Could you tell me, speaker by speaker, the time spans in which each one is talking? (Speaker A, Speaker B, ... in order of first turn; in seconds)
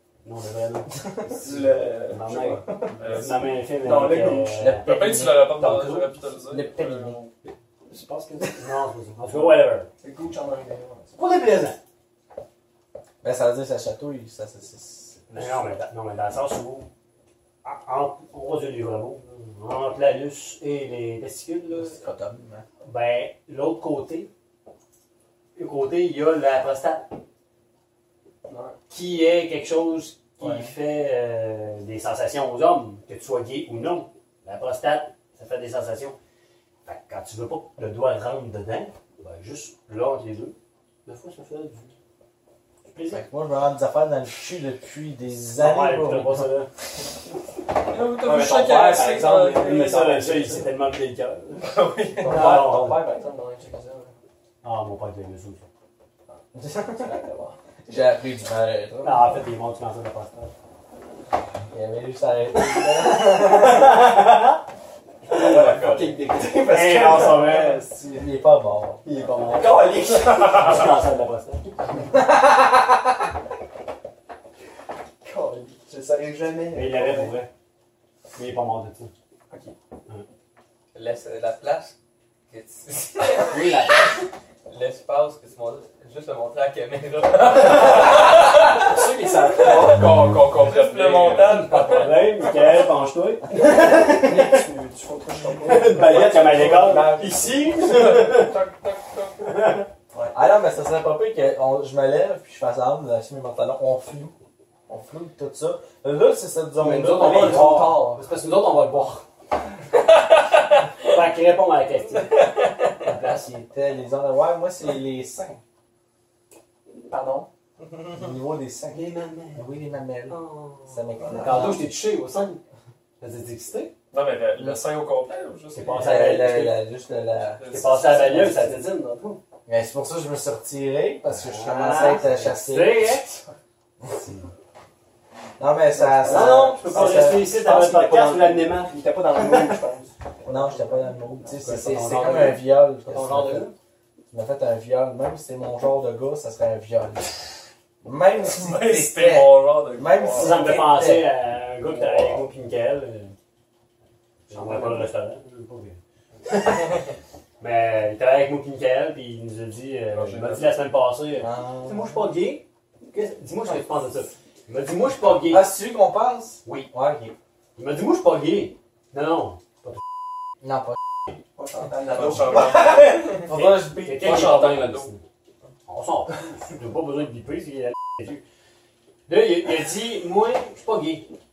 Speaker A: 0.2-6.2, 8.5-9.9, 11.2-11.8, 15.3-16.9, 17.6-22.0, 22.8-24.3, 25.6-27.1, 28.9-36.1, 36.8-41.9, 42.9-43.3, 45.5-46.7, 49.5-53.0, 54.6-55.7, 59.0-60.5, 63.3-64.5, 66.6-68.2, 69.0-72.0, 76.7-77.5, 78.3-79.1, 83.5-83.9, 91.5-94.6, 95.6-98.6, 99.4-99.8, 106.8-109.2, 111.0-113.7, 118.9-119.7, 120.3-120.8, 121.3-122.6, 123.2-123.9, 125.7-126.8, 127.7-129.4, 131.3-133.4, 134.1-134.5, 136.2-138.9, 141.5-143.7, 150.3-153.3, 154.5-157.0, 157.6-165.8, 166.6-166.9, 167.8-170.0, 173.5-175.2, 175.9-178.4, 179.3-181.3
Speaker B: 1.2-3.2, 3.8-4.7, 7.9-8.5, 10.0-11.2, 28.5-28.7, 48.2-50.7, 52.1-54.1, 56.9-57.5, 65.3-68.1, 69.0-70.9, 75.2-77.3, 79.5-79.8, 88.9-90.1, 93.6-98.0, 100.1-100.4, 107.0-108.2, 117.1-117.5, 136.0-141.1, 171.6-173.0
Speaker C: 2.9-3.5, 4.8-7.3, 47.9-49.9, 51.6-52.3, 65.3-66.2, 87.6-92.2, 124.1-126.4, 127.5-128.6, 148.4-150.8, 154.5-155.0, 160.1-160.8, 172.1-173.2, 174.2-175.1
Speaker D: 4.6-5.7, 6.5-7.2, 13.2-15.6, 21.7-22.6, 30.4-30.7, 43.1-46.5, 52.4-52.6, 56.5-57.1, 57.9-59.4, 61.7-64.0, 68.1-69.0, 72.1-72.7, 100.3-104.3, 104.9-107.9, 113.7-115.6, 118.1-121.8, 126.0-127.6, 129.7-133.1, 135.6-137.5, 140.4-143.7, 144.3-147.5, 148.0-151.3, 161.4-162.1, 165.5-167.3, 170.6-170.9, 172.7-174.6
Speaker E: 80.9-81.9, 82.5-84.1, 84.7-88.1, 90.5-92.5, 98.2-99.3